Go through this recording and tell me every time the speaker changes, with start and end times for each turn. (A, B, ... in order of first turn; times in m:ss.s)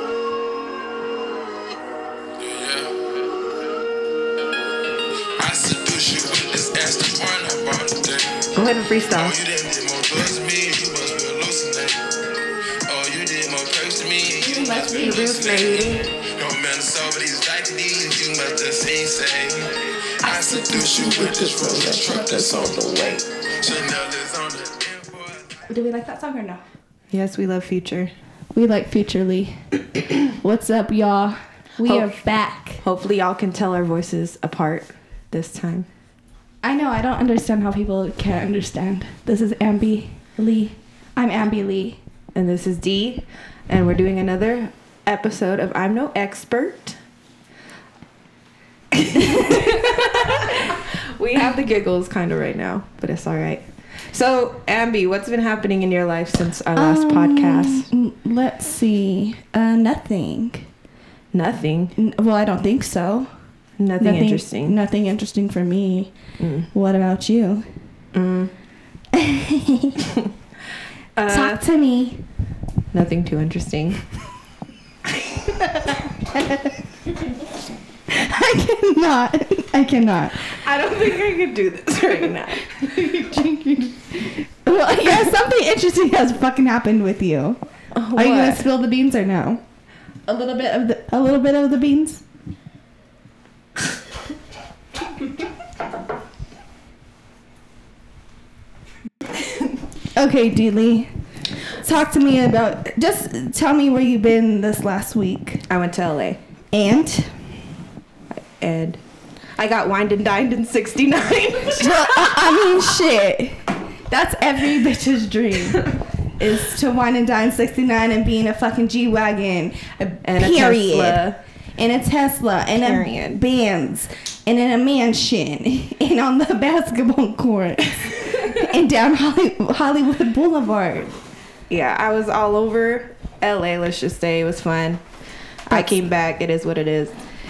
0:02.4-0:03.1 A
0:05.4-0:08.5 A
0:08.6-0:09.4 B
0:09.1-0:12.2 A
0:12.9-0:25.6 A
0:14.4-0:15.4 C
0:14.9-0:16.0 B
0:20.3-0:23.2 B
0:21.0-0:22.5 C
0:25.7-0:26.6 C
0:27.1-0:28.1 B
0:28.5-0:29.6 C
0:30.1-0:32.8 C
0:31.8-0:32.1 B
0:32.8-0:35.9 B
0:36.6-0:42.0 C
0:42.4-0:47.0 B
0:48.9-0:57.9 B
0:56.8-1:00.7 C
1:01.3-1:01.9 B
1:02.0-1:03.3 C
1:03.8-1:04.8 B
1:04.0-1:06.1 C
1:06.4-1:06.7 B
1:06.7-1:07.7 C
1:08.1-1:08.5 B
1:09.1-1:10.0 C
1:11.2-1:11.6 B
1:11.3-1:12.2 C
1:12.9-1:14.0 B
1:15.6-1:16.8 C
1:18.1-1:20.5 C
1:20.5-1:23.1 B
1:22.7-1:27.6 C
1:27.9-1:28.7 B
1:28.1-1:29.6 C
1:30.3-1:32.2 C
1:40.2-1:41.1 C
1:41.7-1:45.6 C
1:45.7-1:46.4 B
1:46.7-1:47.4 C
1:48.4-1:49.0 B
1:49.6-1:52.7 B
1:51.8-2:01.2 C
2:00.2-2:01.4 B
2:01.8-2:11.2 C
2:02.8-2:03.4 B
2:11.7-2:15.0 B
2:15.7-2:17.2 B
2:15.7-2:16.0 C